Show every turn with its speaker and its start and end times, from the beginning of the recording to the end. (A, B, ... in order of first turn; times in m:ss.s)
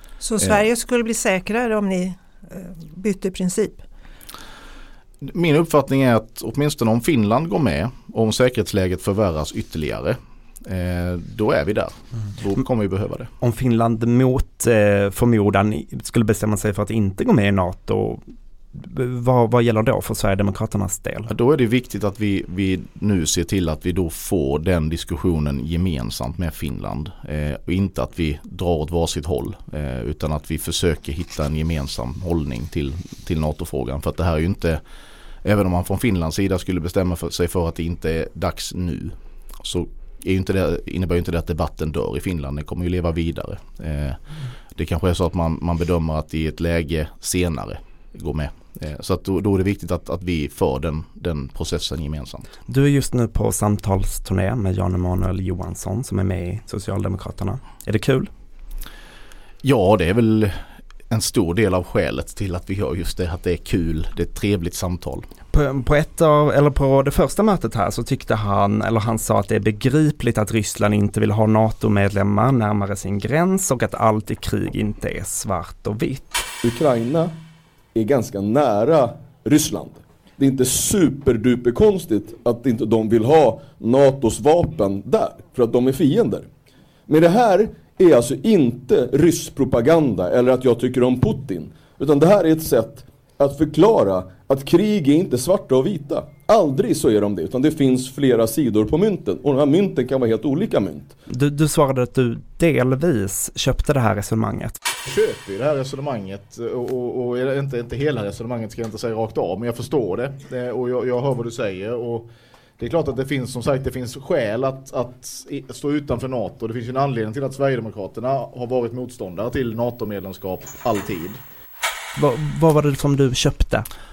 0:00.2-0:03.8 A
0:05.2-0:13.3 B
0:13.4-0:18.2 C
0:18.7-0:21.3 C
0:21.3-0:34.8 B
0:35.4-0:44.2 B
0:44.7-0:52.5 B
0:52.7-0:58.3 C
0:59.6-1:00.6 B
1:01.1-1:05.3 B
1:05.5-1:16.4 C
1:16.6-1:17.4 D
1:18.0-1:26.5 D
1:27.1-1:41.1 D
1:41.3-1:44.8 C
1:45.0-2:01.4 B
2:02.2-2:03.9 C